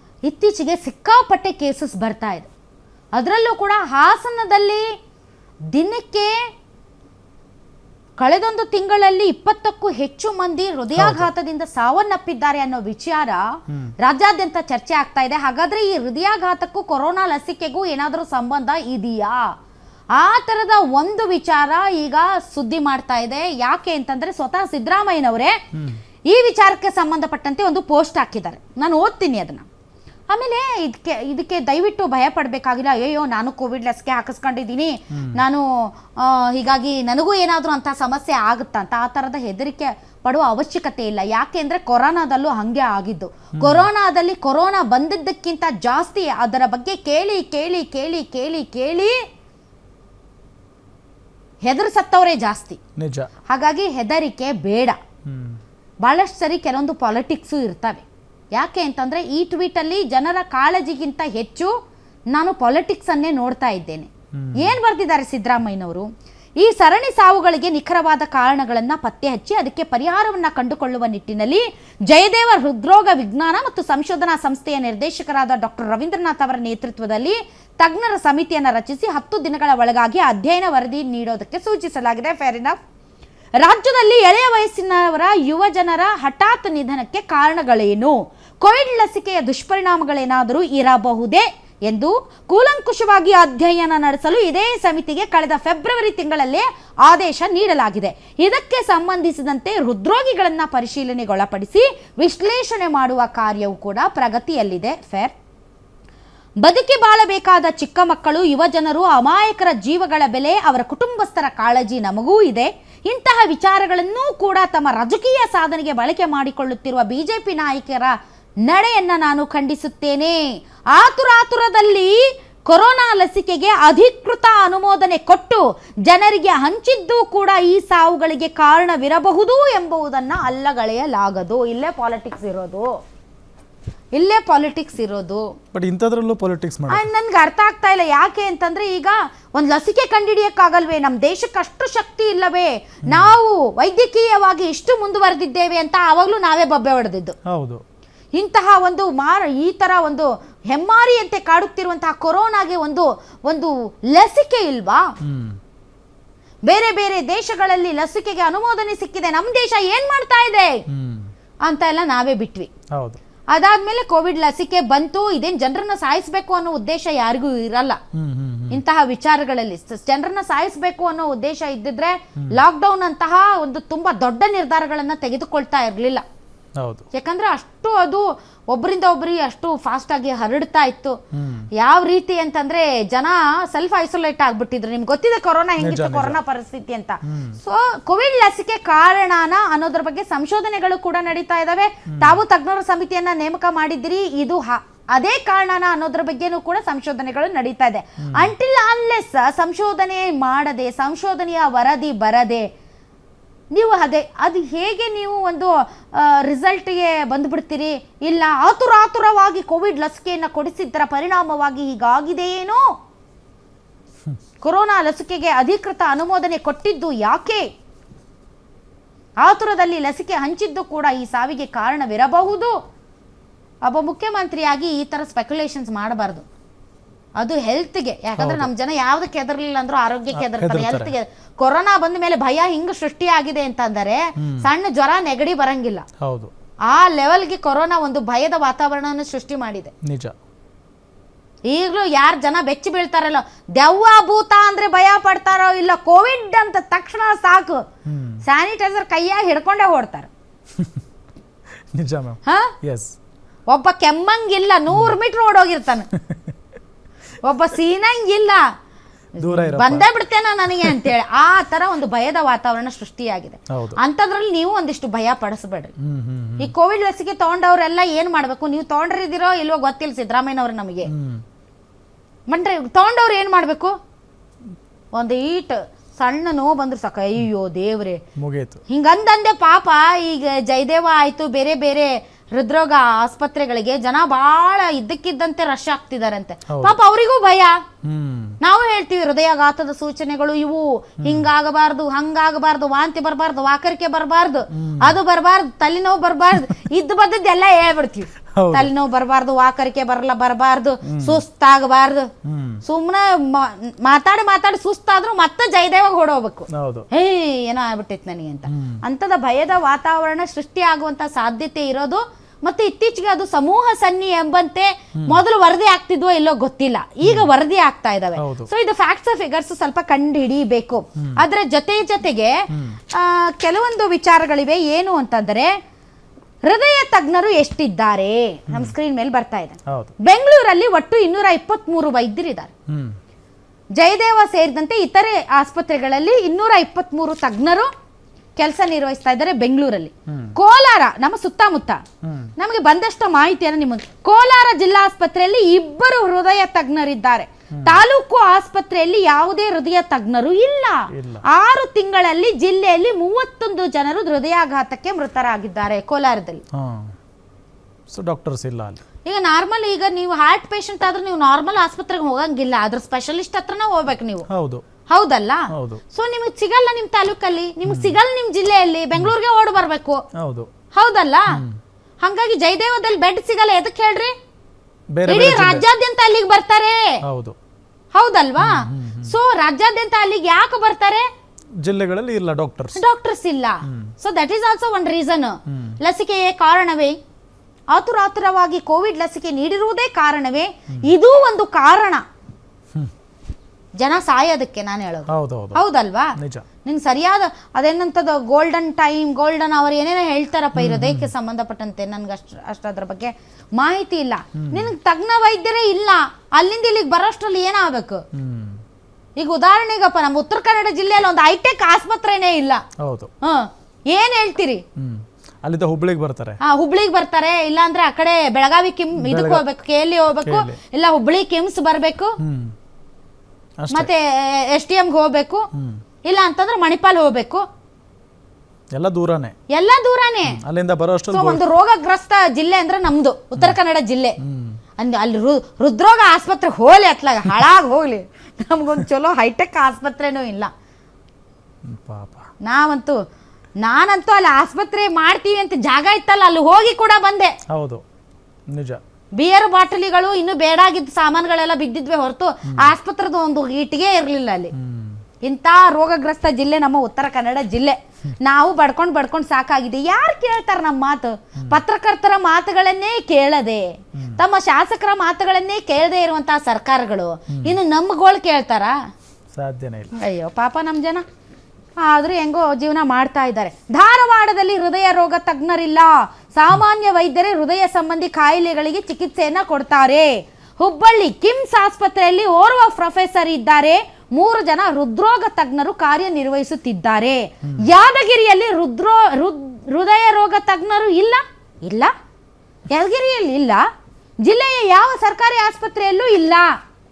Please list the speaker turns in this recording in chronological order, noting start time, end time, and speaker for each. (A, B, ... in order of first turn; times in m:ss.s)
0:00.3-0:02.5 A
0:03.2-0:04.9 A
0:05.7-0:06.5 A
0:08.2-0:13.5 A
0:11.0-0:11.3 B
0:13.7-0:13.9 B
0:14.0-0:19.5 A
0:20.1-0:25.6 A
0:25.7-0:26.0 B
0:26.3-0:29.7 A
0:30.3-0:49.2 A
0:35.1-0:35.4 B
0:43.6-0:43.9 B
0:51.6-0:52.8 A
0:53.0-0:53.3 B
0:53.5-0:55.0 A
0:55.3-0:55.6 B
0:56.0-1:01.8 A
1:02.3-1:22.8 A
1:04.3-1:04.8 B
1:23.6-1:45.4 A
1:46.6-2:13.0 A
2:14.2-2:15.5 A
2:15.7-2:17.1 B
2:16.9-2:27.4 A
2:23.1-2:23.4 B
2:27.5-2:27.8 B
2:28.4-2:35.1 A
2:35.2-2:35.6 B
2:36.7-2:40.8 A
2:40.9-2:41.3 B
2:41.6-2:42.7 A
2:42.9-2:43.2 B
2:43.5-2:48.0 A
2:48.1-2:48.8 B
2:48.7-2:56.2 A
2:56.8-2:57.1 B
2:57.1-3:01.2 A
3:01.3-3:01.7 B
3:01.7-3:22.7 A
3:05.8-3:06.4 B
3:07.2-3:07.6 B
3:12.1-3:12.4 B
3:18.2-3:18.5 B
3:23.7-3:32.9 A
3:34.6-3:37.7 A
3:39.4-3:42.8 A
3:43.8-3:46.5 A
3:47.4-3:56.0 A
3:48.4-3:48.7 B
3:50.3-3:51.1 B
3:54.4-3:54.7 B
3:56.2-3:56.5 B
3:56.9-3:59.9 A
4:00.0-4:00.4 B
4:01.7-4:07.8 A
4:08.1-4:08.4 B
4:08.4-4:10.3 A
4:12.0-4:13.2 B
4:12.5-4:12.7 A
4:13.7-4:16.1 A
4:14.9-4:15.2 B
4:16.1-4:16.5 B
4:17.4-4:18.6 A
4:19.4-4:25.9 A
4:19.4-4:20.1 B
4:20.8-4:21.1 B
4:23.7-4:24.0 B
4:26.0-4:26.7 B
4:26.6-4:31.1 A
4:31.1-4:31.4 B
4:32.5-4:34.0 A
4:35.1-4:38.2 A
4:38.4-4:38.8 B
4:38.9-4:47.8 A
4:46.7-4:47.0 B
4:48.0-4:48.6 B
4:48.6-5:02.3 A
4:51.2-4:51.5 B
4:54.7-4:55.2 B
4:58.6-4:58.9 B
5:01.0-5:01.4 B
5:02.4-5:02.8 B
5:02.8-5:25.7 A
5:06.7-5:07.1 B
5:08.7-5:09.0 B
5:15.2-5:15.4 B
5:17.2-5:17.5 B
5:18.4-5:18.7 B
5:21.2-5:21.4 B
5:22.7-5:23.0 B
5:26.7-5:32.7 A
5:28.7-5:28.9 B
5:29.9-5:30.2 B
5:32.9-5:33.2 B
5:34.0-5:37.9 A
5:38.6-5:42.0 A
5:40.3-5:40.6 B
5:42.2-5:42.5 B
5:42.6-5:56.6 A
5:47.7-5:48.0 B
5:51.1-5:51.4 B
5:56.7-5:57.1 B
5:58.1-5:59.0 B
5:59.2-6:04.5 A
6:04.5-6:04.8 B
6:05.1-6:10.2 A
6:05.7-6:06.0 B
6:07.9-6:08.2 B
6:10.4-6:10.7 B
6:10.9-6:11.6 A
6:11.5-6:11.8 B
6:12.2-6:14.3 A
6:15.1-6:15.9 B
6:15.3-6:17.2 A
6:17.2-6:17.6 B
6:18.1-6:21.3 A
6:18.6-6:19.4 B
6:21.8-6:23.0 B
6:23.0-6:27.2 A
6:23.8-6:24.2 B
6:25.7-6:26.0 B
6:27.9-6:32.2 A
6:34.0-6:48.2 A
6:35.3-6:35.8 B
6:36.4-6:36.7 B
6:40.7-6:41.3 B
6:44.6-6:44.9 B
6:48.3-6:48.8 B
6:49.4-6:52.8 A
6:53.0-6:53.3 B
6:53.4-6:54.8 A
6:55.0-6:56.6 B
6:56.6-7:02.4 A
6:59.2-6:59.7 B
7:00.4-7:00.8 B
7:02.4-7:02.8 B
7:03.8-7:04.1 B
7:03.9-7:05.7 A
7:05.7-7:06.0 B
7:06.2-7:07.6 A
7:08.9-7:09.6 B
7:09.7-7:10.6 A
7:10.5-7:11.6 B
7:11.3-7:14.4 A
7:14.4-7:14.8 B
7:15.0-7:20.7 A
7:21.9-7:22.5 B
7:22.6-7:23.2 A
7:23.8-7:27.5 A
7:27.7-7:28.0 B
7:28.7-7:29.0 B
7:29.4-7:34.7 A
7:32.7-7:32.9 B
7:34.7-7:35.2 B
7:35.4-7:49.0 A
7:44.2-7:44.4 B
7:47.5-7:47.8 B
7:49.5-7:50.1 B
7:50.2-7:51.2 A
7:52.0-8:12.1 A
8:12.9-8:13.9 A
8:14.4-8:16.8 A